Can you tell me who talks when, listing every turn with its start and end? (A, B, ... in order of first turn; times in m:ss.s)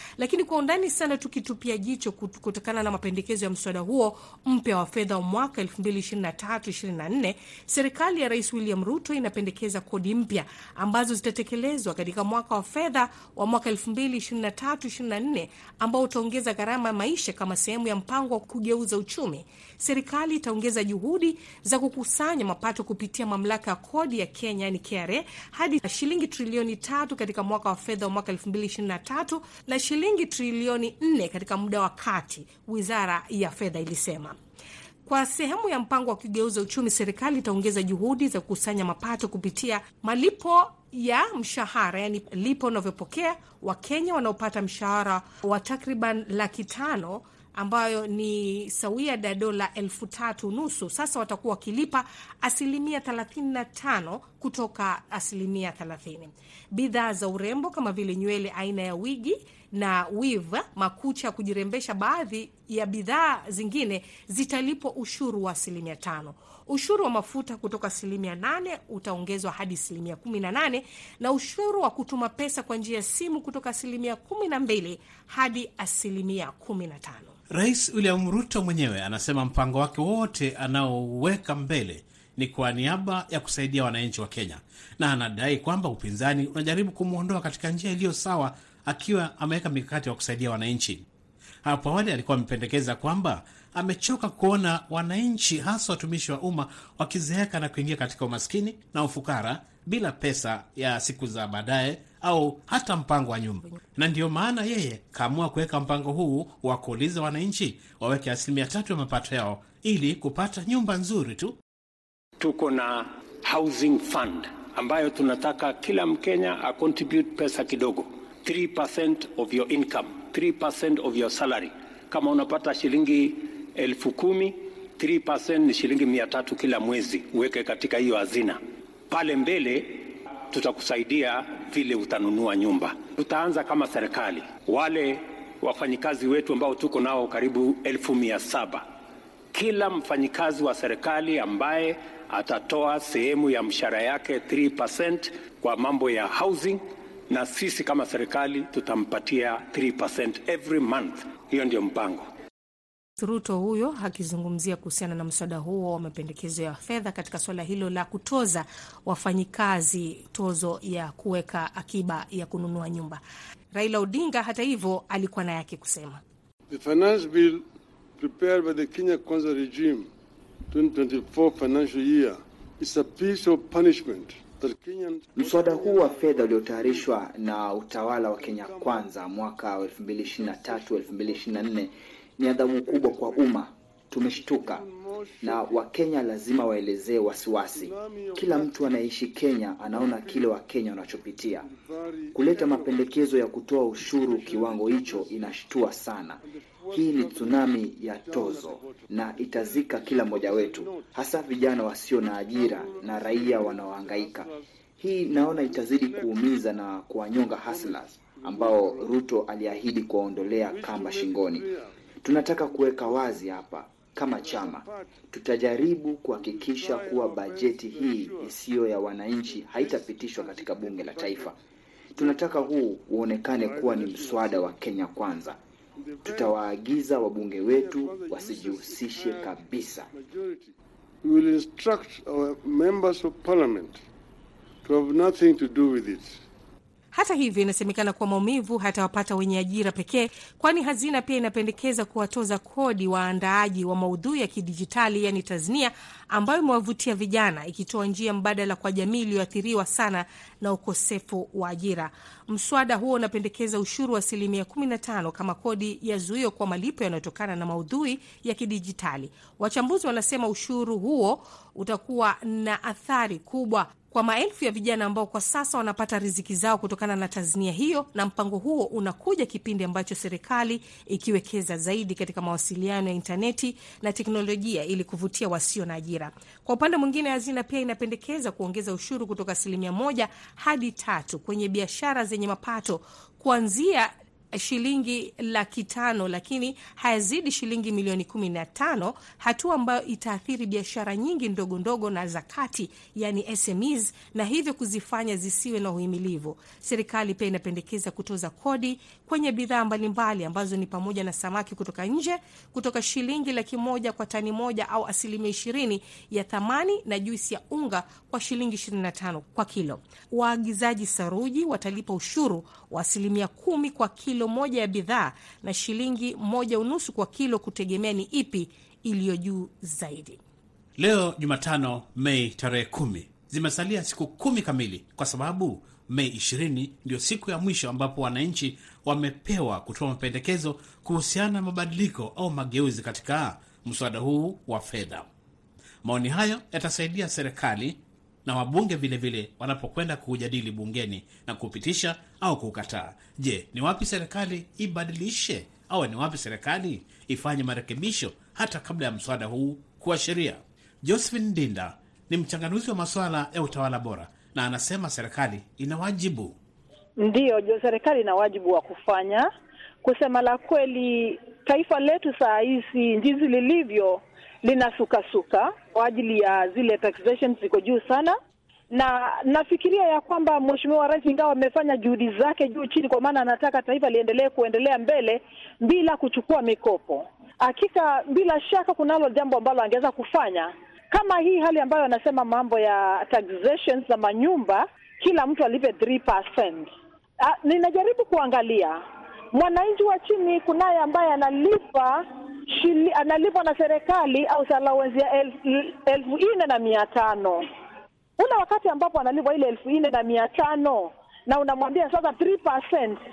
0:00.2-0:34.4 A
0:35.1-1:17.4 A
1:17.5-1:31.1 B
1:31.6-1:51.6 B
1:52.4-2:18.9 C
2:19.5-2:32.3 C
2:33.2-2:43.2 A
2:43.7-2:46.2 A
2:46.7-2:47.6 D
2:48.2-2:50.1 D
2:50.7-2:57.1 D
2:55.4-3:04.8 E
2:58.3-2:59.1 D
3:00.2-3:01.8 D
3:02.8-3:03.6 D
3:04.3-3:05.9 D
3:05.4-3:11.7 E
3:07.7-3:09.0 D
3:09.9-3:10.6 D
3:11.6-3:13.2 D
3:12.3-3:16.4 E
3:14.1-3:15.6 D
3:16.4-3:21.1 D
3:16.9-3:31.7 E
3:22.2-3:24.6 D
3:25.6-3:26.5 D
3:27.6-3:29.1 D
3:30.7-3:31.9 D
3:32.2-3:41.6 E
3:34.3-3:35.2 D
3:36.4-3:38.6 D
3:39.4-3:41.5 D
3:42.2-3:45.6 E
3:42.2-3:42.8 D
3:43.4-3:44.8 D
3:46.0-3:46.6 D
3:46.2-3:50.1 E
3:47.6-3:54.0 D
3:54.8-3:56.4 D
3:57.1-5:20.4 A
5:21.0-5:35.3 B
5:36.0-5:56.6 B
5:57.2-5:59.5 F
6:00.0-6:08.4 F
6:08.9-6:26.9 F
6:27.4-6:29.0 F
6:29.5-6:37.6 F
6:38.4-6:43.2 F